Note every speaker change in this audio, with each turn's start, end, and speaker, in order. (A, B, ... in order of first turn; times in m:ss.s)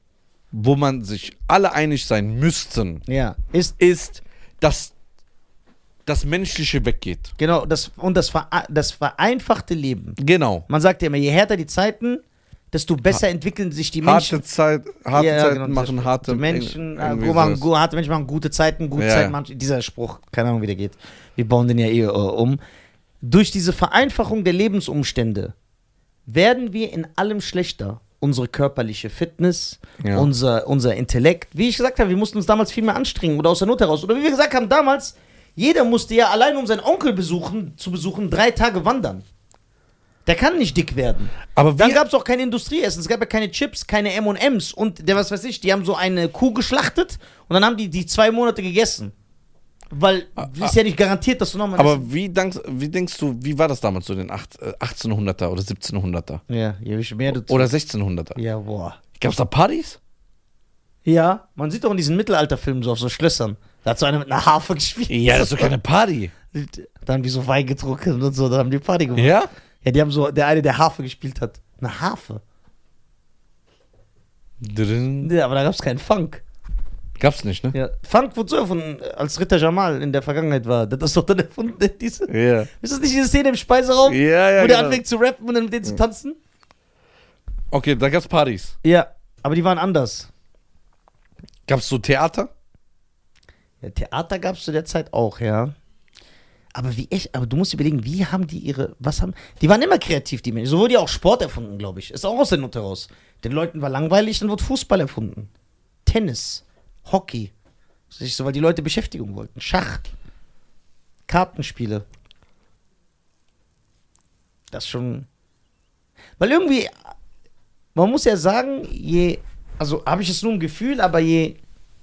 0:00.5-0:03.0 A
0:03.1-0:03.7 B
0:03.8-0:04.9 A
0:06.0-0:07.3 A
0:07.4-0:14.4 B
0:10.2-0:10.6 A
0:14.0-0:17.6 A
0:15.1-0:22.6 B
0:19.0-0:19.3 A
0:23.2-0:25.5 B
0:26.3-0:39.2 B
0:30.0-0:30.3 A
0:40.2-0:49.1 B
0:41.5-0:42.0 A
0:49.9-0:52.0 B
0:50.4-0:50.7 A
0:51.8-0:56.4 A
0:56.5-0:57.7 B
0:57.3-0:58.4 A
0:58.4-0:59.0 B
0:59.2-1:00.0 A
1:01.0-1:05.7 B
1:05.1-1:06.3 A
1:06.5-1:12.4 B
1:09.2-1:09.5 A
1:14.6-1:15.3 A
1:15.2-1:16.4 B
1:17.2-1:17.7 A
1:17.7-1:26.4 B
1:22.3-1:22.7 A
1:24.0-1:25.0 A
1:27.7-1:28.8 A
1:28.8-1:30.3 B
1:31.7-1:32.5 A
1:33.8-1:35.8 B
1:36.7-1:45.5 B
1:46.0-1:47.5 B
1:48.1-1:50.1 B
1:51.3-1:52.0 B
1:54.7-1:55.3 B
1:56.4-1:57.1 B
1:57.9-2:01.6 B